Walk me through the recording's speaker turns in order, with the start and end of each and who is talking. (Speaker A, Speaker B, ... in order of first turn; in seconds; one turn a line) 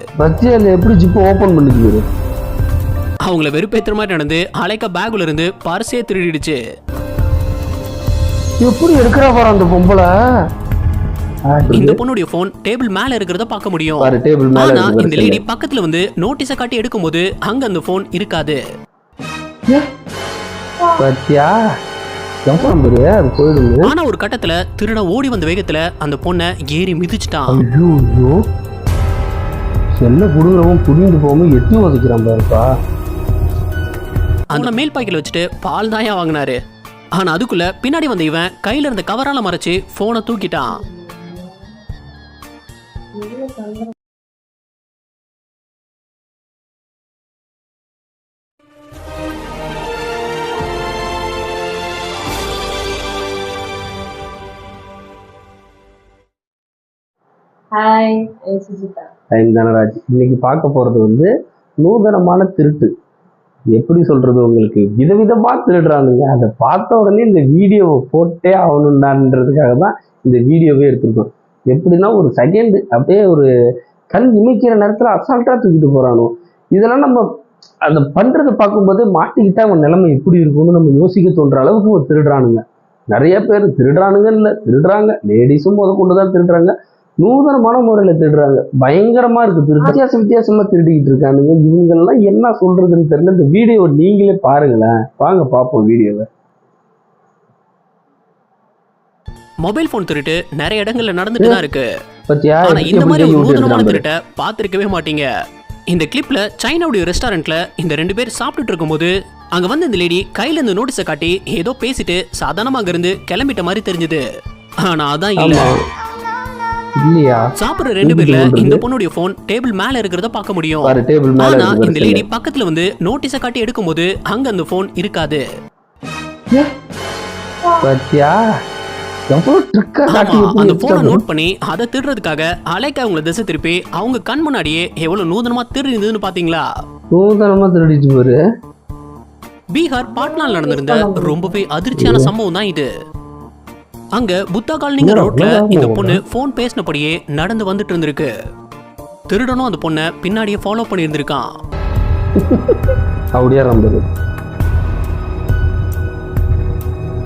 Speaker A: 0.2-2.0
Speaker B: 3.2-6.6
Speaker A: 8.6-10.1
Speaker A: 11.5-12.0
Speaker B: 11.7-18.6
Speaker A: 14.0-15.4
Speaker C: 20.8-21.1
Speaker A: 21.0-21.5
Speaker A: 22.5-23.9
Speaker B: 23.8-27.6
Speaker A: 27.5-28.4
Speaker A: 30.0-32.7
Speaker B: 34.5-36.6
Speaker B: 37.2-40.8
Speaker C: 40.8-41.6
Speaker C: 43.2-43.9
Speaker C: 57.7-59.1
Speaker A: 59.3-61.3
Speaker A: 61.8-62.9
Speaker A: 63.7-73.5
Speaker A: 74.1-77.2
Speaker A: 77.9-82.6
Speaker A: 83.1-96.3
Speaker B: 99.6-101.8
Speaker A: 102.3-104.0
Speaker B: 102.7-105.2
Speaker B: 105.9-114.2
Speaker B: 114.8-115.7
Speaker A: 115.4-115.7
Speaker A: 117.0-117.5
Speaker B: 117.6-125.4
Speaker A: 118.0-118.8
Speaker A: 120.8-122.2
Speaker C: 127.6-127.9
Speaker A: 127.8-128.4
Speaker A: 129.3-131.2
Speaker B: 130.1-136.7
Speaker A: 137.1-138.4
Speaker B: 139.7-142.9
Speaker C: 140.0-141.6
Speaker A: 142.0-142.3
Speaker B: 144.1-148.3
Speaker A: 145.0-146.2
Speaker B: 149.3-151.5
Speaker A: 152.4-154.1